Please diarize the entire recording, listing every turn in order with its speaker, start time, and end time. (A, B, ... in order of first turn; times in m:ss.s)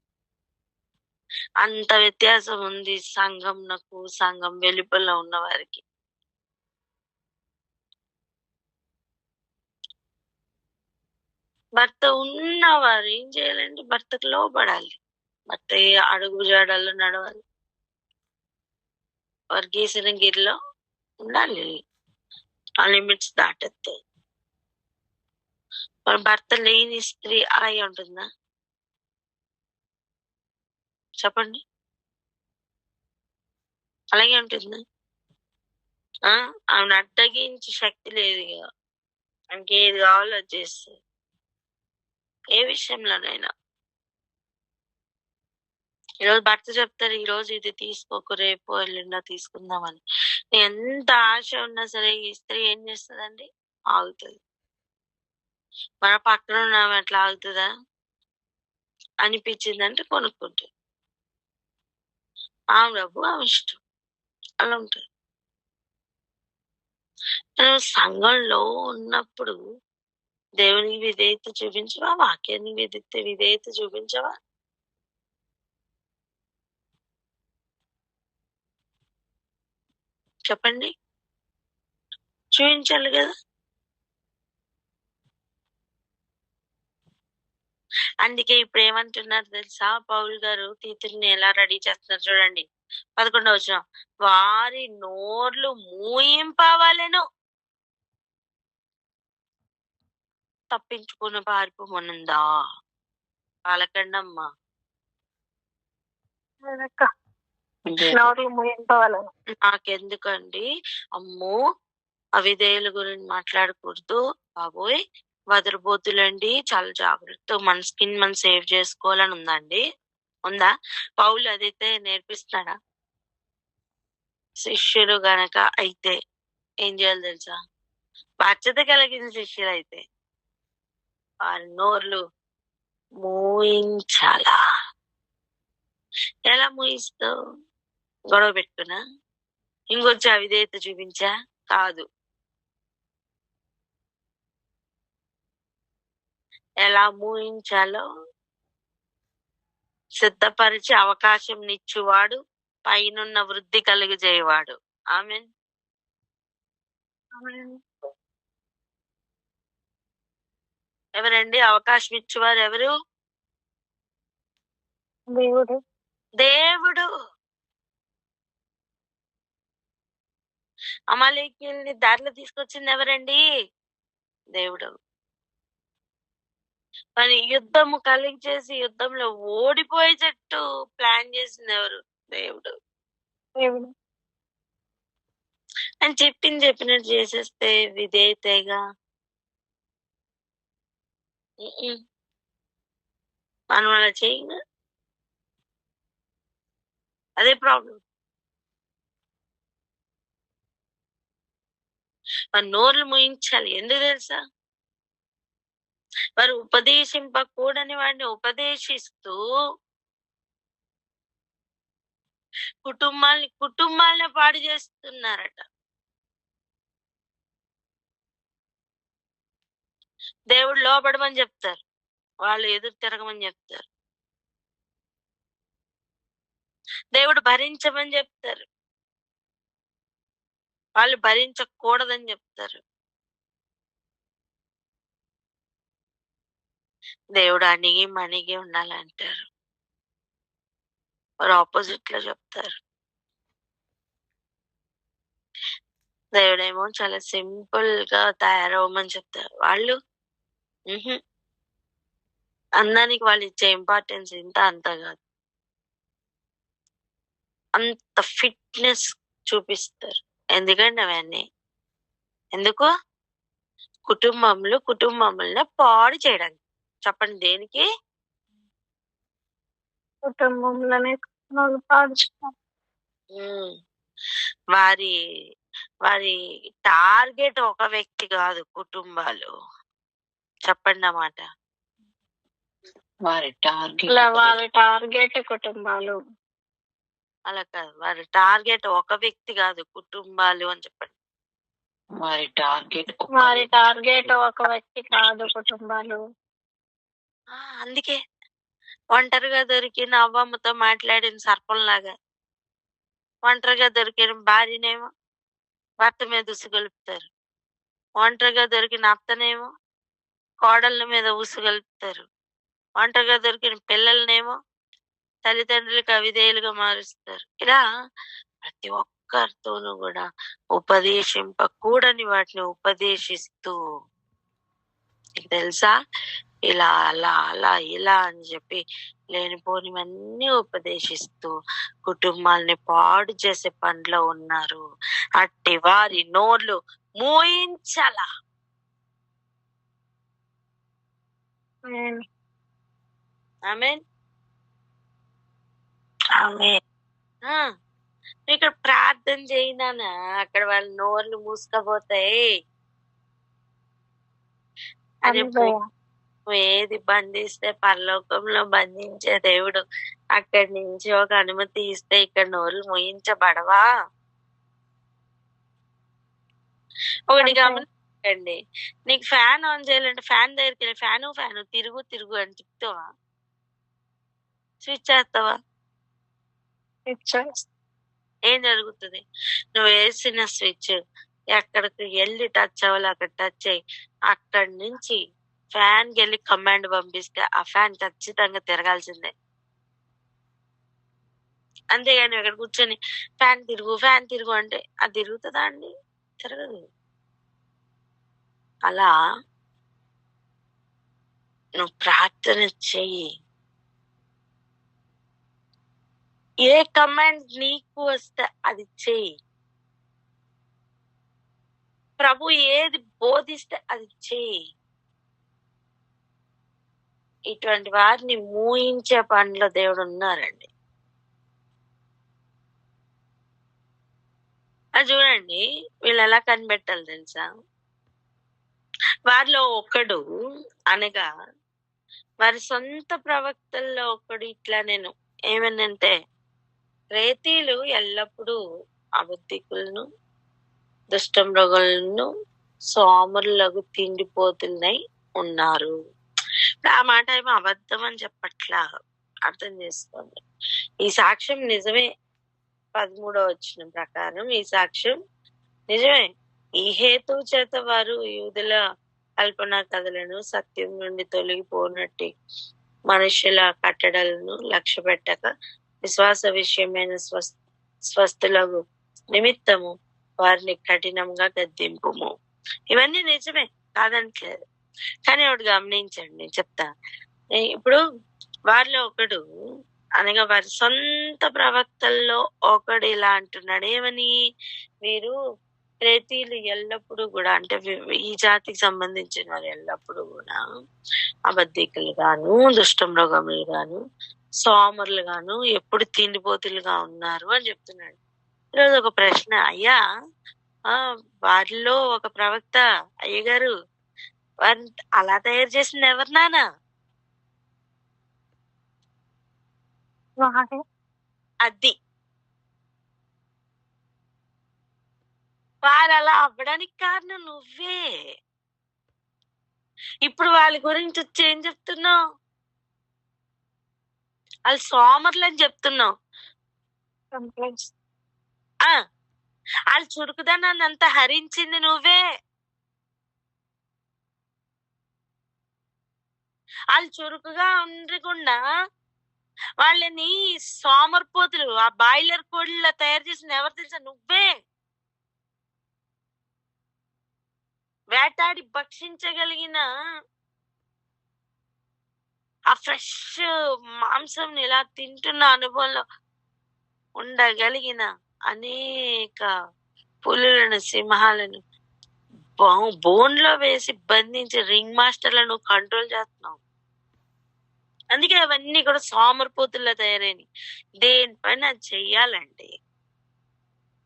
0:01.6-0:05.8 A
0:11.8-0:15.0 A
0:15.5-0:17.4 A
0:19.5-0:20.6 A
0:21.3-0:21.7 A
0:22.8-0:23.9 A
0:26.1-0:28.2 A
0:31.2-0:31.6 A
0:34.1-0:34.8 A
0:36.3-0:38.6 A
0:39.5-0:41.0 A
0:42.6-0:43.5 A
0:46.2-0:50.0 A
0:50.5-0:54.4 A
0:56.0-0:57.7 A
0:59.2-1:00.7 A
1:02.8-1:03.8 A
1:04.6-1:05.0 A
1:07.6-1:09.6 A
1:10.6-1:14.3 A
1:20.5-1:20.9 A
1:22.6-1:23.3 A
1:28.2-1:32.6 A
1:33.2-1:37.2 A
1:40.7-1:42.4 A
1:43.7-1:44.4 A
1:46.6-1:47.0 B
1:47.9-1:48.3 C
1:48.1-1:49.3 B
1:49.7-1:50.6 A
1:51.2-1:51.6 A
1:52.4-1:55.0 A
1:55.5-1:59.8 A
2:01.2-2:02.7 A
2:04.6-2:06.2 A
2:06.8-2:07.6 A
2:08.4-2:10.0 A
2:11.5-2:12.2 A
2:13.2-2:14.6 A
2:16.5-2:17.3 A
2:18.3-2:19.0 A
2:19.9-2:22.0 A
2:26.8-2:28.0 A
2:30.2-2:35.5 A
2:37.4-2:37.8 B
2:41.2-2:42.9 A
2:45.3-2:45.7 B
2:46.4-2:47.1 A
2:51.1-2:53.4 A
2:54.5-2:54.9 A
2:57.2-3:02.7 A
3:03.6-3:03.9 B
3:06.0-3:08.8 A
3:11.6-3:12.0 A
3:13.7-3:14.6 A
3:17.4-3:18.0 A
3:22.5-3:24.4 A
3:26.4-3:29.4 A
3:32.8-3:35.6 A
3:40.5-3:41.8 A
3:42.4-3:43.8 A
3:47.1-3:48.6 A
3:51.0-3:52.8 A
3:57.4-3:59.4 A
4:01.4-4:02.7 A
4:06.4-4:10.0 A
4:10.9-4:11.2 A
4:12.8-4:15.2 A
4:17.8-4:21.4 A
4:22.5-4:22.9 A
4:24.1-4:27.8 A
4:30.3-4:32.5 B
4:33.4-4:33.7 A
4:34.7-4:35.1 A
4:36.1-4:36.3 A
4:36.9-4:39.5 A
4:40.7-4:41.4 A
4:43.2-4:44.6 C
4:44.1-4:46.1 B
4:47.5-4:51.1 A
4:52.2-4:53.7 C
4:53.4-4:56.2 B
4:57.5-4:58.2 A
4:59.1-5:02.1 A
5:03.5-5:05.1 A
5:06.0-5:07.3 A
5:08.2-5:09.7 A
5:10.6-5:12.2 A
5:13.0-5:14.6 A
5:15.5-5:17.8 A
5:18.6-5:20.2 A
5:20.8-5:23.8 A
5:25.4-5:25.9 A
5:26.7-5:28.8 A
5:29.3-5:31.5 A
5:32.1-5:34.8 A
5:35.4-5:38.2 A
5:41.9-5:42.2 B
5:43.7-5:44.0 A
5:46.4-5:46.8 A
5:48.5-5:52.4 A
5:55.3-5:55.7 A
5:55.3-5:55.8 B
5:56.4-5:59.8 A
6:00.4-6:03.8 A
6:07.3-6:08.6 A
6:07.4-6:07.8 B
6:09.1-6:13.0 A
6:14.8-6:15.5 A
6:17.1-6:17.4 B
6:18.5-6:19.2 A
6:19.7-6:20.9 A
6:21.5-6:23.8 A
6:24.3-6:25.2 A
6:25.7-6:29.3 A
6:31.9-6:35.9 A
6:36.4-6:36.8 A
6:41.8-6:43.2 A
6:46.6-6:49.2 A
6:52.2-6:54.5 A
6:57.5-7:00.7 A
7:05.0-7:07.4 A
7:09.3-7:10.2 A
7:10.9-7:11.2 A
7:12.4-7:16.1 A
7:17.1-7:18.6 A
7:19.2-7:20.0 A
7:21.1-7:22.3 A
7:22.9-7:25.9 A
7:26.8-7:28.8 A
7:29.5-7:30.4 A
7:31.0-7:32.0 A
7:33.0-7:35.1 A
7:35.9-7:36.2 A
7:36.8-7:38.8 A
7:39.4-7:42.3 A
7:43.1-7:45.5 A
7:46.0-7:47.5 A
7:48.1-7:48.8 A
7:49.3-7:49.9 A
7:50.4-7:52.3 A
7:52.9-7:54.6 A
7:55.3-7:56.9 A
7:57.6-7:58.0 A
7:58.7-7:59.4 A
8:00.2-8:04.3 A
8:05.0-8:05.3 A
8:06.0-8:10.6 A
8:11.5-8:14.0 A
8:14.6-8:18.2 A
8:18.8-8:20.0 A
8:20.9-8:23.7 A
8:24.6-8:26.6 A
8:30.4-8:30.7 B
8:31.6-8:31.9 A
8:35.8-8:38.0 A
8:40.2-8:42.1 A
8:44.7-8:46.1 A
8:47.4-8:47.8 B
8:49.9-8:52.2 A
8:56.9-8:58.6 A
8:59.8-9:04.5 A
9:08.1-9:09.8 A
9:12.7-9:13.4 A
9:14.1-9:16.0 A
9:17.2-9:18.7 A
9:20.2-9:21.6 A
9:22.6-9:26.6 A
9:28.1-9:30.4 A
9:31.0-9:32.7 A